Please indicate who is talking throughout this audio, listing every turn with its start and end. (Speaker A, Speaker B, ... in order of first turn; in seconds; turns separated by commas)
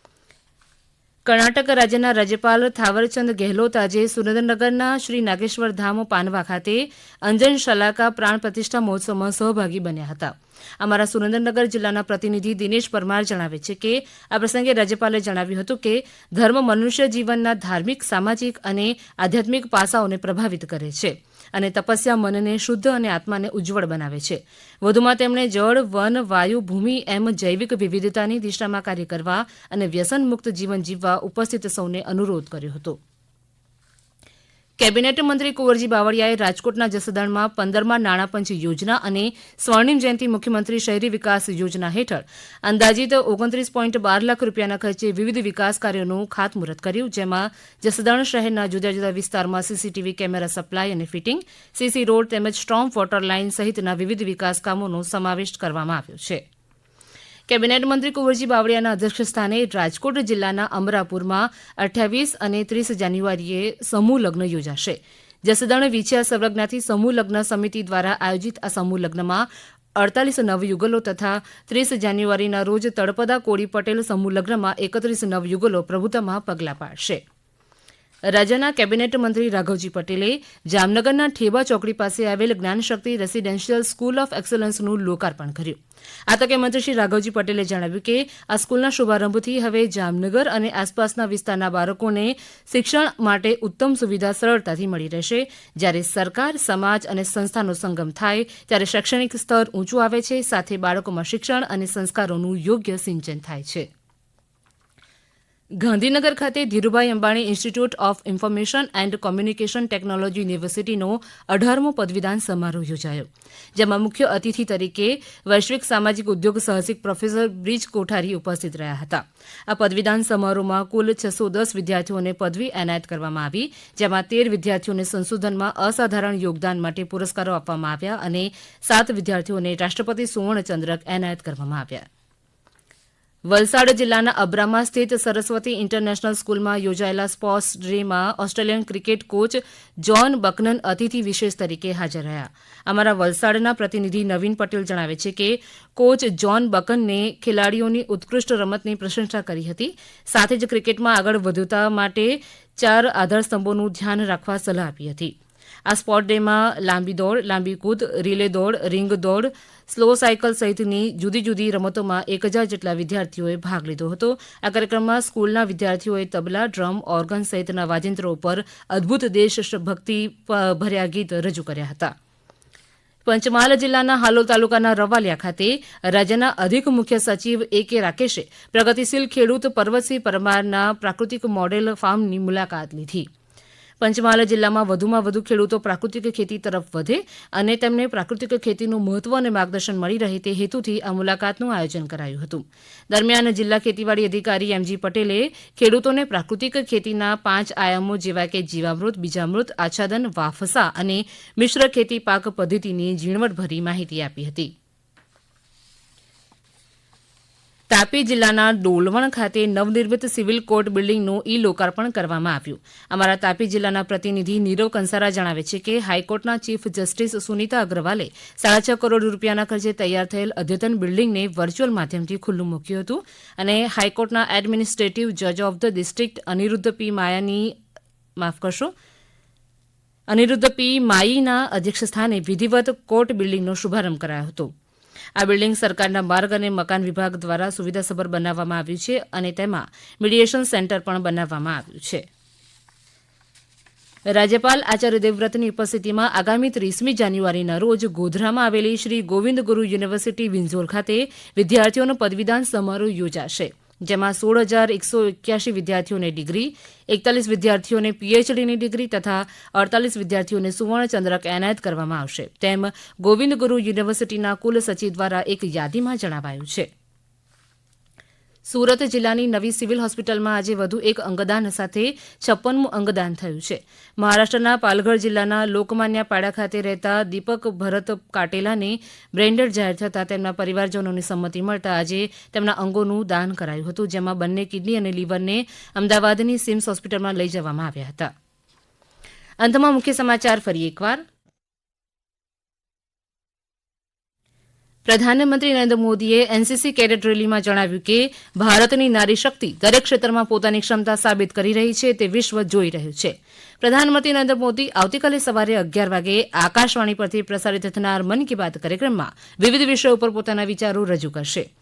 Speaker A: 1.2-33.0, Speaker A: 34.8-56.4, Speaker A: 57.5-77.2, Speaker A: 78.3-103.9, Speaker A: 105.8-132.1, Speaker A: 133.5-155.4, Speaker A: 155.9-172.1, Speaker A: 173.2-183.3, Speaker A: 184.0-204.7, Speaker A: 207.9-227.8, Speaker A: 228.4-228.9, Speaker A: 230.3-234.7, Speaker A: 235.4-242.2, Speaker A: 244.3-266.9, Speaker A: 268.7-288.3, Speaker A: 289.6-291.2, Speaker A: 295.1-311.6